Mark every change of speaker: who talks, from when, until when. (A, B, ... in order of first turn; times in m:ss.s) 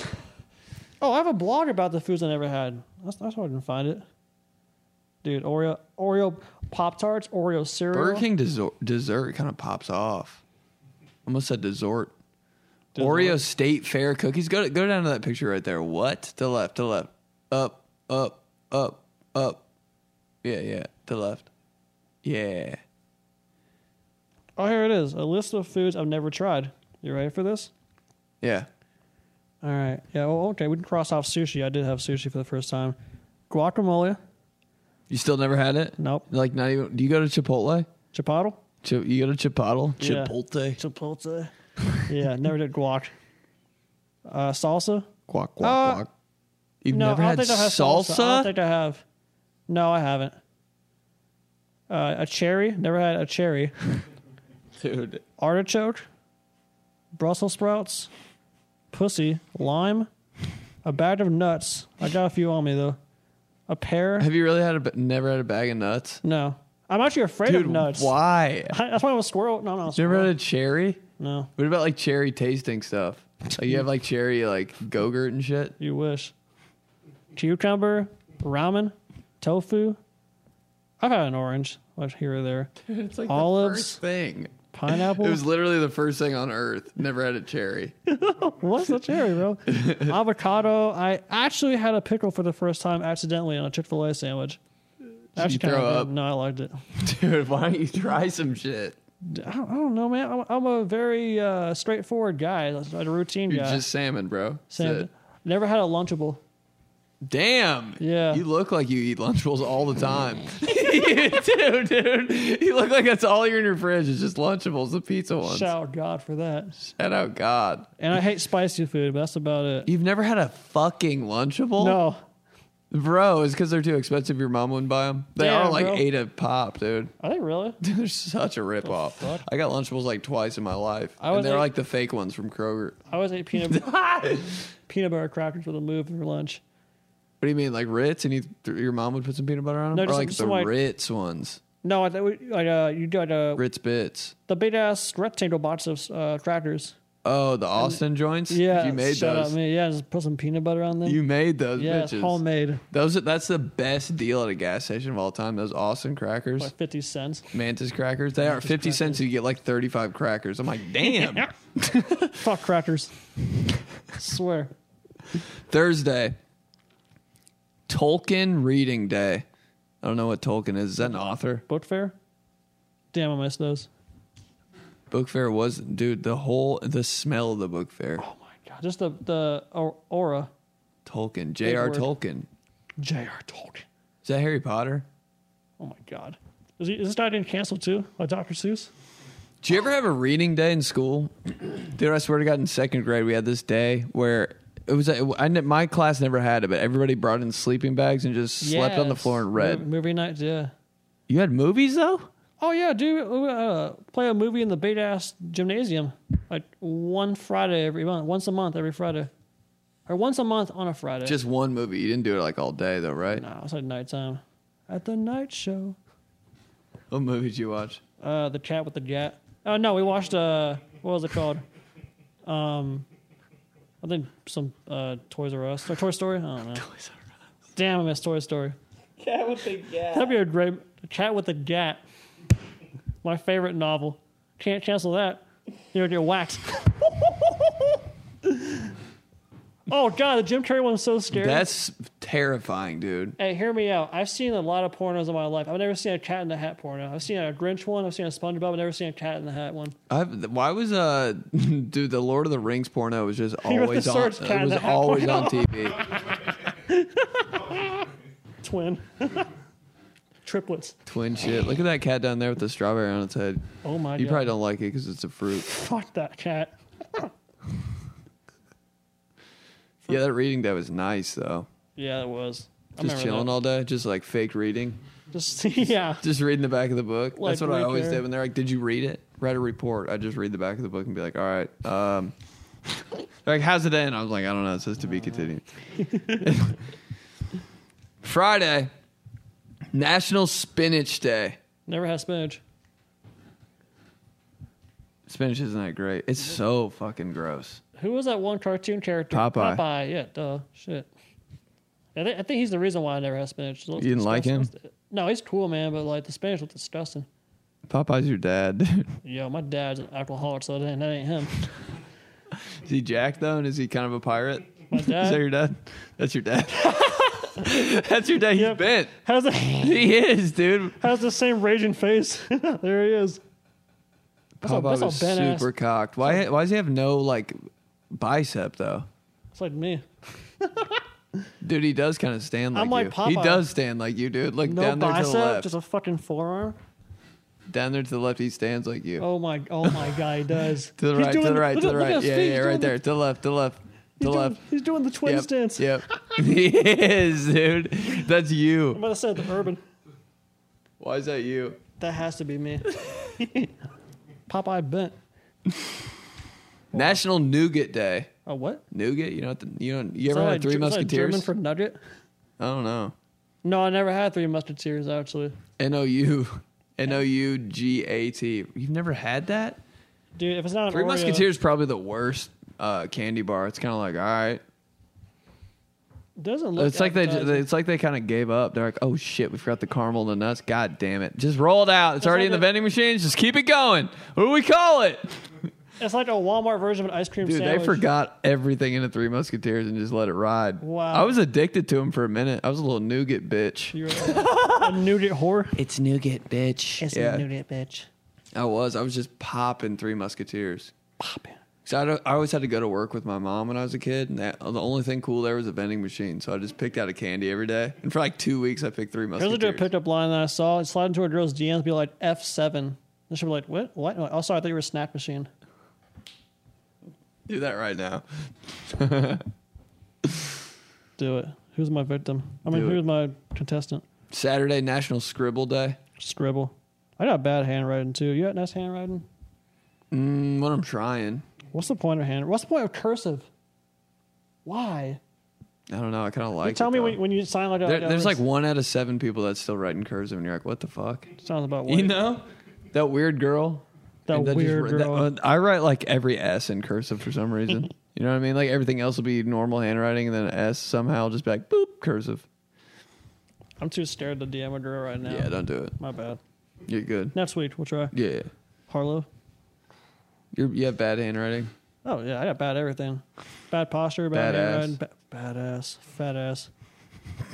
0:01.0-0:04.0 A
0:05.2-0:08.2 A
0:07.9-0:10.4 B
0:11.2-0:12.1 B
0:12.9-0:13.4 A
0:13.0-0:19.6 B
0:20.4-0:21.5 B
0:22.2-0:22.8 B
0:24.6-0:27.7 A
0:28.4-0:28.7 B
0:29.6-0:33.0 A
0:33.5-0:34.2 A
0:35.1-0:37.9 B
0:36.0-0:36.3 A
0:38.1-0:38.6 A
0:38.8-0:40.8 B
0:40.0-0:41.5 A
0:42.0-0:43.1 A
0:44.3-0:46.0 A
0:45.3-0:46.1 B
0:46.8-0:48.5 B
0:46.9-0:49.0 A
0:49.7-0:50.4 A
0:51.9-0:53.7 A
0:54.8-0:55.2 B
0:55.4-0:56.0 A
0:57.2-0:58.1 A
0:58.9-1:00.1 A
1:00.8-1:03.0 A
1:03.7-1:04.3 A
1:04.2-1:06.2 B
1:06.2-1:08.1 A
1:07.4-1:08.8 B
1:08.7-1:10.3 A
1:10.0-1:11.0 B
1:11.2-1:11.5 A
1:11.6-1:15.7 B
1:15.8-1:16.3 A
1:17.3-1:20.0 A
1:21.0-1:22.7 A
1:22.8-1:27.9 B
1:23.3-1:24.0 A
1:24.7-1:25.4 A
1:28.1-1:34.6 A
1:29.7-1:30.1 B
1:35.4-1:36.8 A
1:35.4-1:36.1 B
1:37.0-1:39.0 B
1:39.2-1:43.8 A
1:43.5-1:45.1 B
1:44.7-1:46.4 A
1:47.2-1:55.7 B
1:48.0-1:48.4 A
1:55.4-1:56.7 A
1:56.8-1:57.9 B
1:58.0-1:59.9 A
1:59.8-2:02.0 B
2:01.8-2:02.2 A
2:02.9-2:07.1 B
2:05.4-2:06.0 A
2:07.2-2:07.8 A
2:07.8-2:13.0 B
2:08.8-2:09.4 A
2:11.2-2:11.7 A
2:13.1-2:13.9 A
2:13.6-2:14.6 B
2:14.9-2:16.6 A
2:17.4-2:21.6 B
2:19.9-2:20.7 A
2:21.8-2:23.6 A
2:23.6-2:24.3 B
2:24.5-2:26.9 A
2:27.2-2:29.6 B
2:27.8-2:31.2 A
2:31.0-2:32.4 B
2:31.8-2:32.8 A
2:32.9-2:36.7 B
2:36.6-2:37.5 A
2:37.5-2:42.4 B
2:38.4-2:39.2 A
2:41.0-2:41.5 A
2:42.4-2:43.1 A
2:44.1-2:44.7 A
2:45.7-2:46.4 B
2:47.9-2:49.4 B
2:50.0-2:51.6 B
2:51.7-2:52.1 A
2:53.1-2:53.9 A
2:55.1-2:58.2 B
2:58.2-3:00.5 A
3:01.0-3:02.5 B
3:01.6-3:02.1 A
3:03.0-3:03.8 A
3:04.2-3:05.0 B
3:05.8-3:08.9 A
3:09.6-3:19.8 B
3:18.6-3:20.7 A
3:21.3-3:22.3 B
3:22.6-3:29.3 A
3:30.1-3:31.4 A
3:31.2-3:33.4 B
3:33.4-3:36.0 A
3:37.1-3:38.0 B
3:38.2-3:41.6 A
3:42.4-3:43.0 A
3:44.0-3:46.8 A
3:46.8-3:47.1 B
3:47.7-3:48.8 A
3:49.2-3:50.4 B
3:50.1-3:52.0 A
3:53.2-3:57.7 A
3:58.4-3:58.9 A
3:59.9-4:01.6 A
4:01.3-4:03.4 B
4:03.4-4:10.0 A
4:10.1-4:16.0 B
4:13.6-4:18.1 A
4:18.6-4:19.5 A
4:20.4-4:21.0 A
4:21.0-4:23.6 B
4:23.8-4:24.5 A
4:24.2-4:25.7 B
4:25.5-4:27.3 A
4:30.1-4:31.7 B
4:32.0-4:33.5 A
4:33.0-4:35.0 B
4:35.3-4:36.2 A
4:36.2-4:42.3 B
4:37.4-4:38.2 A
4:43.4-4:46.8 B
4:48.2-4:48.9 B
4:49.9-4:51.6 B
4:51.9-4:52.6 A
4:55.3-4:57.8 B
4:58.0-5:01.1 A
4:59.3-4:59.8 B
5:02.1-5:07.2 A
5:04.0-5:04.7 B
5:07.9-5:09.1 B
5:09.2-5:11.6 A
5:12.8-5:19.1 B
5:14.9-5:15.4 A
5:16.9-5:17.6 A
5:18.6-5:20.1 A
5:19.8-5:21.0 B
5:21.0-5:23.4 A
5:24.6-5:27.6 B
5:24.6-5:25.7 A
5:28.1-5:29.1 B
5:29.5-5:30.0 A
5:30.6-5:31.0 A
5:31.6-5:35.7 B
5:32.7-5:33.6 A
5:34.6-5:36.8 A
5:37.7-5:39.2 B
5:39.2-5:42.9 A
5:41.0-5:44.6 B
5:44.2-5:45.9 A
5:45.2-5:49.0 B
5:48.9-5:49.8 A
5:51.0-5:51.8 B
5:52.0-5:53.7 A
5:54.5-5:55.1 A
5:56.9-5:57.2 A
5:56.9-5:58.3 B
5:58.4-5:58.8 A
5:58.9-6:01.5 B
6:00.3-6:02.0 A
6:02.6-6:03.1 B
6:03.6-6:05.6 A
6:05.8-6:09.8 B
6:10.4-6:11.4 A
6:10.9-6:14.6 B
6:16.4-6:17.6 A
6:16.8-6:25.4 B
6:22.2-6:22.6 A
6:26.0-6:28.0 A
6:27.4-6:35.0 B
6:30.8-6:31.4 A
6:33.9-6:35.7 A
6:35.8-6:37.4 B
6:37.0-6:38.1 A
6:38.5-6:40.9 B
6:41.2-6:41.6 A
6:41.8-6:49.9 B
6:49.4-6:55.5 A
6:57.5-6:58.2 B
6:58.8-6:59.4 B
7:01.2-7:04.0 A
7:02.7-7:03.0 B
7:04.3-7:06.0 B
7:06.2-7:09.2 A
7:10.1-7:11.4 B
7:11.7-7:13.5 A
7:14.6-7:15.2 A
7:15.9-7:17.2 B
7:16.6-7:18.4 A
7:17.8-7:21.3 B
7:21.4-7:22.2 A
7:21.9-7:32.4 B
7:24.3-7:25.3 A
7:33.8-7:36.4 A
7:35.3-7:35.9 B
7:36.9-7:37.4 B
7:37.3-7:38.1 A
7:38.1-7:38.5 B
7:38.9-7:39.2 A
7:40.5-7:41.7 B
7:42.0-7:46.7 A
7:44.3-7:45.0 B